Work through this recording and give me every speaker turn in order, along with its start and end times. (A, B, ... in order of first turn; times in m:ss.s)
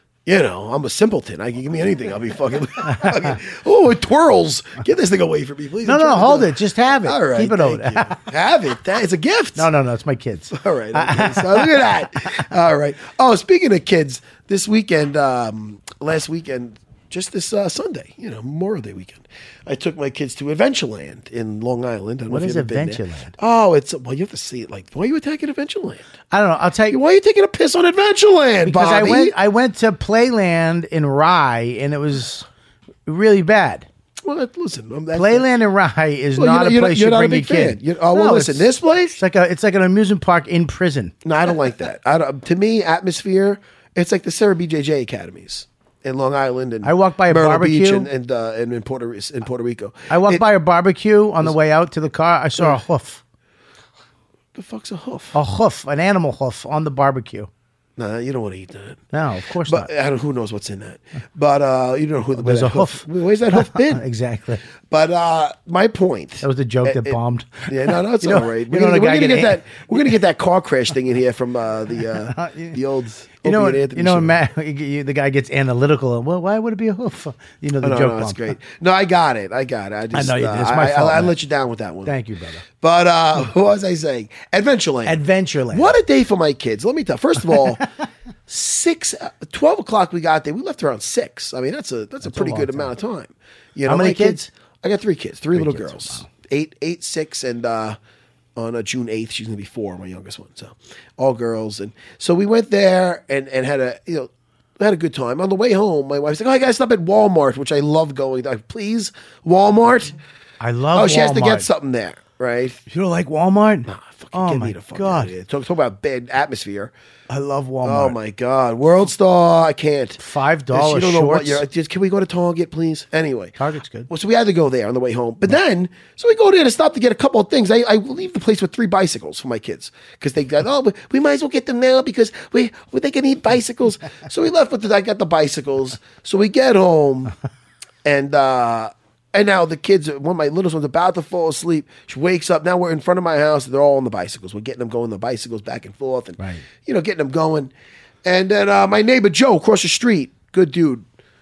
0:00.2-0:06.5 A
0:02.8-0:03.3 B
0:05.8-0:08.2 B
0:07.0-0:09.7 A
0:09.6-0:12.5 B
0:10.5-0:26.0 A
0:22.3-0:23.3 B
0:26.3-0:27.0 B
0:26.9-0:29.3 A
0:28.6-0:32.4 B
0:33.0-0:33.8 B
0:34.2-0:35.5 A
0:35.1-0:41.1 B
0:36.4-0:39.2 A
0:41.2-0:50.4 A
0:46.8-0:48.1 B
0:50.1-0:53.2 B
0:54.5-0:55.4 A
0:55.3-0:57.5 B
0:58.0-0:59.0 A
0:59.1-0:59.9 B
0:59.6-1:04.0 A
1:02.4-1:04.6 B
1:04.9-1:14.3 A
1:06.4-1:09.6 B
1:12.2-1:12.8 B
1:13.4-1:18.5 B
1:17.8-1:22.1 A
1:20.1-1:21.3 B
1:22.0-1:22.6 B
1:22.8-1:25.2 A
1:25.0-1:25.9 B
1:25.7-1:27.9 A
1:28.5-1:38.0 A
1:32.2-1:32.9 B
1:33.9-1:34.5 B
1:35.5-1:36.3 B
1:38.6-1:50.2 A
1:50.6-1:51.6 B
1:50.9-1:52.8 A
1:52.9-1:55.3 B
1:53.9-1:56.9 A
1:57.3-1:58.2 B
1:57.8-2:00.2 A
2:00.2-2:01.6 B
2:00.7-2:03.6 A
2:03.6-2:04.1 B
2:04.1-2:17.3 A
2:18.0-2:27.7 A
2:28.2-2:31.0 A